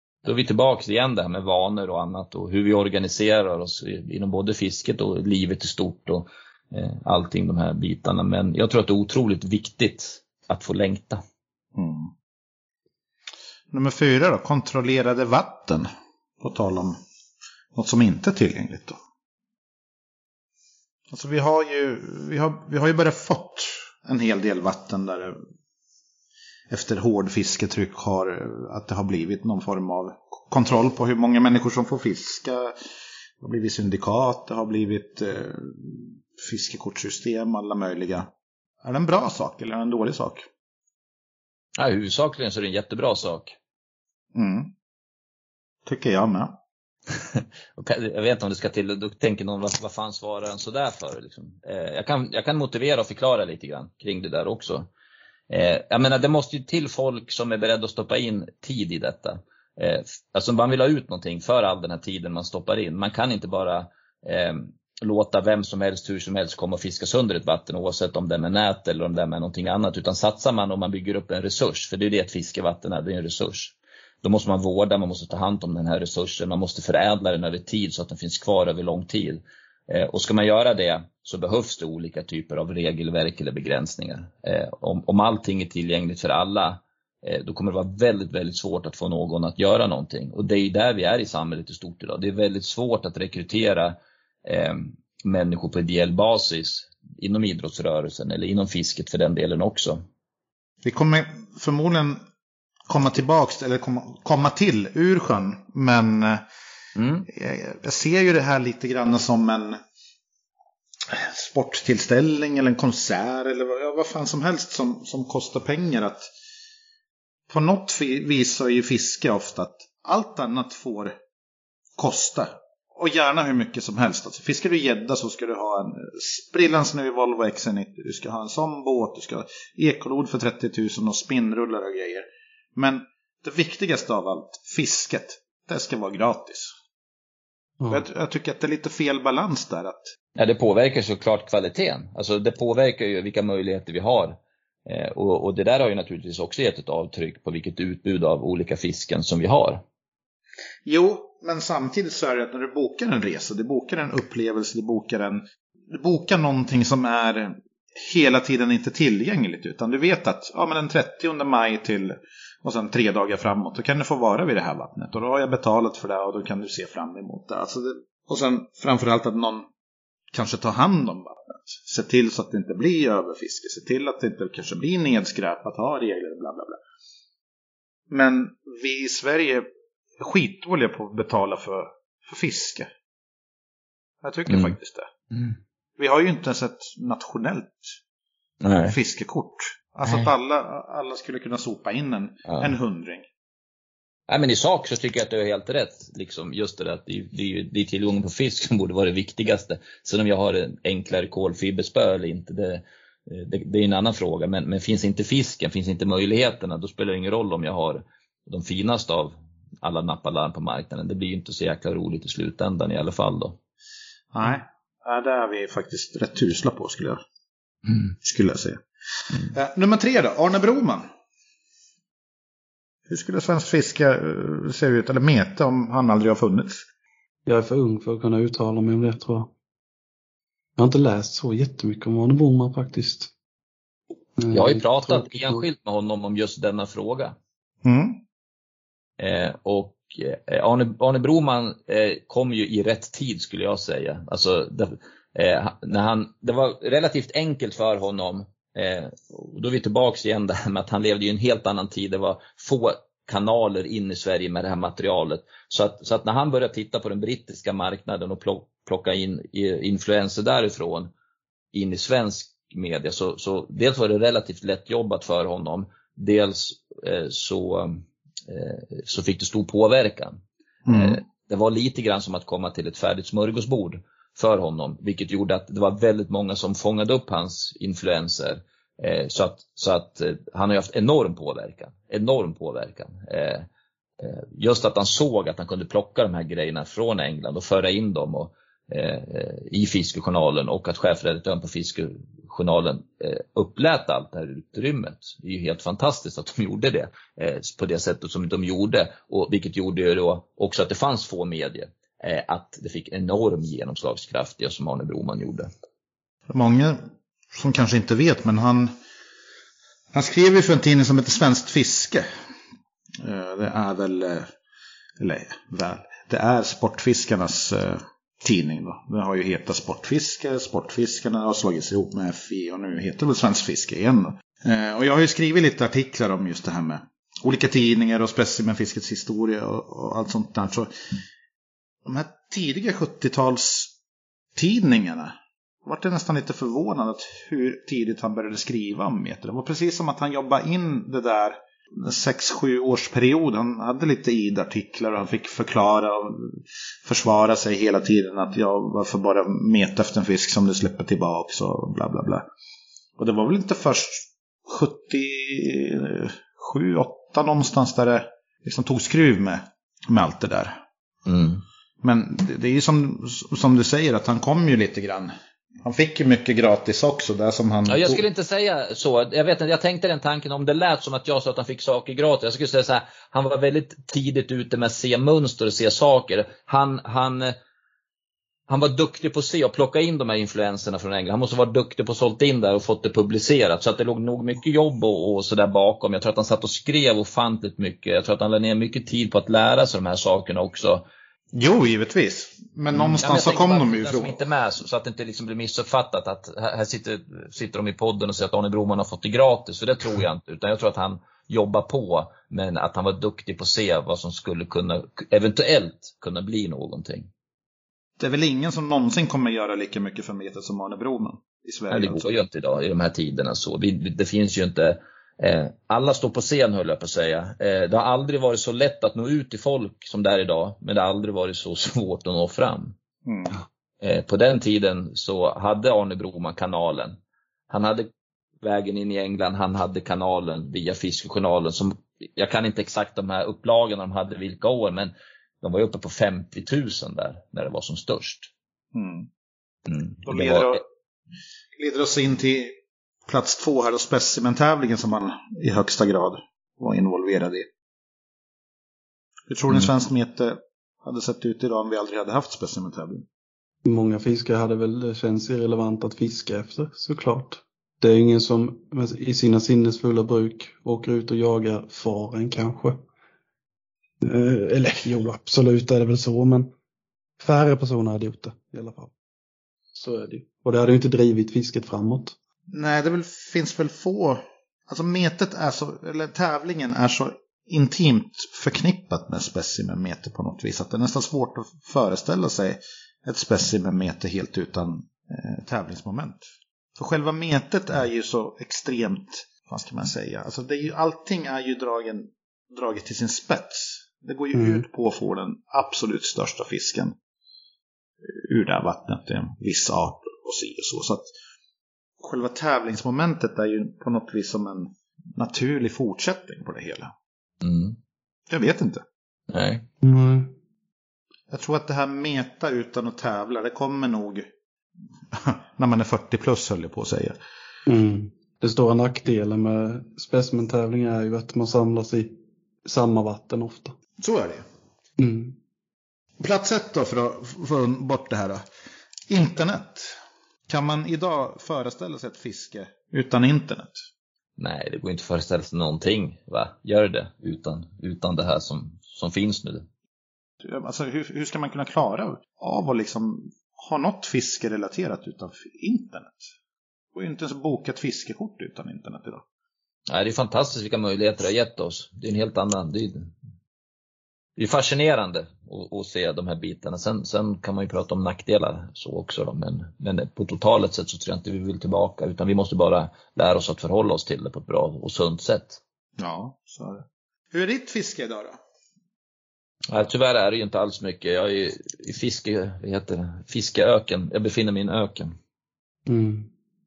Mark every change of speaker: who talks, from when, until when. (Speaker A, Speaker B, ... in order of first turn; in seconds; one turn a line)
Speaker A: 0.2-11.2
Speaker B: 11.8-12.1
Speaker B: 13.7-15.9
Speaker B: 16.4-17.0
Speaker B: 17.7-19.0
Speaker B: 21.1-25.4
Speaker B: 26.7-32.7
Speaker B: 33.4-38.3
Speaker B: 38.8-40.5
Speaker A: 41.8-43.6
Speaker B: 44.4-44.7
Speaker B: 45.9-46.6
Speaker A: 47.1-54.9
Speaker A: 55.5-100.0
Speaker B: 100.8-102.2
Speaker B: 102.9-106.5
Speaker A: 107.0-107.3
Speaker B: 107.3-109.8
Speaker B: 111.1-116.3
Speaker B: 117.5-121.2
Speaker B: 122.0-136.7
Speaker C: 137.8-138.1
Speaker B: 137.9-140.1
Speaker A: 140.4-149.8
Speaker B: 150.9-169.7
Speaker B: 170.3-176.8
Speaker B: 178.1-179.7
Speaker B: 180.2-182.9
Speaker B: 184.2-185.1
Speaker A: 184.5-184.8
Speaker B: 186.0-187.9
Speaker A: 188.6-189.0
Speaker B: 188.8-193.2
Speaker A: 192.5-192.7
Speaker A: 194.3-213.6
Speaker B: 214.3-217.2
Speaker B: 218.2-218.8
Speaker B: 219.4-221.1
Speaker B: 223.1-226.8
Speaker C: 227.5-229.5
Speaker C: 230.8-233.3
Speaker C: 234.4-235.6
Speaker A: 234.5-237.3
Speaker B: 237.8-238.2
Speaker A: 239.2-261.1
Speaker A: 261.7-283.7
Speaker B: 270.9-271.2
Speaker A: 284.2-305.7
Speaker B: 306.5-307.0
Speaker B: 307.5-308.9
Speaker B: 310.1-312.3
Speaker B: 313.2-314.5
Speaker B: 315.2-330.9
Speaker B: 332.1-333.9
Speaker B: 334.6-352.5
Speaker B: 353.2-360.8
Speaker A: 361.3-361.6
Speaker B: 362.0-365.3
Speaker B: 365.8-368.2
Speaker A: 367.9-377.5
Speaker A: 378.7-391.1
Speaker B: 391.5-394.3
Speaker A: 392.9-407.3
Speaker B: 408.2-412.2
Speaker A: 411.9-422.9
Speaker B: 423.2-423.6
Speaker A: 424.0-427.2
Speaker A: 427.7-428.1
Speaker A: 428.6-438.5
Speaker B: 438.9-439.3
Speaker A: 439.9-440.8
Speaker B: 440.3-440.8
Speaker B: 441.8-442.7
Speaker B: 443.3-447.7
Speaker B: 449.5-453.3
Speaker C: 453.9-463.1
Speaker C: 464.2-466.7
Speaker C: 467.4-469.1
Speaker C: 469.9-472.4
Speaker B: 472.7-486.4
Speaker B: 487.0-497.1
Speaker C: 494.5-494.9
Speaker B: 498.3-501.3
Speaker B: 502.2-507.1
Speaker A: 507.6-508.0
Speaker B: 508.5-509.0
Speaker A: 509.5-509.9
Speaker C: 510.0-510.5
Speaker B: 511.5-514.5
Speaker B: 515.3-517.4
Speaker C: 517.9-524.0
Speaker B: 524.2-524.6
Speaker C: 525.2-525.6
Speaker B: 526.4-528.7
Speaker B: 529.3-530.2
Speaker B: 530.7-534.0
Speaker A: 534.6-539.9
Speaker B: 540.6-546.5
Speaker B: 547.1-549.4
Speaker A: 550.1-553.3
Speaker A: 554.6-565.8
Speaker B: 566.2-568.6
Speaker A: 569.9-575.3
Speaker C: 576.1-576.5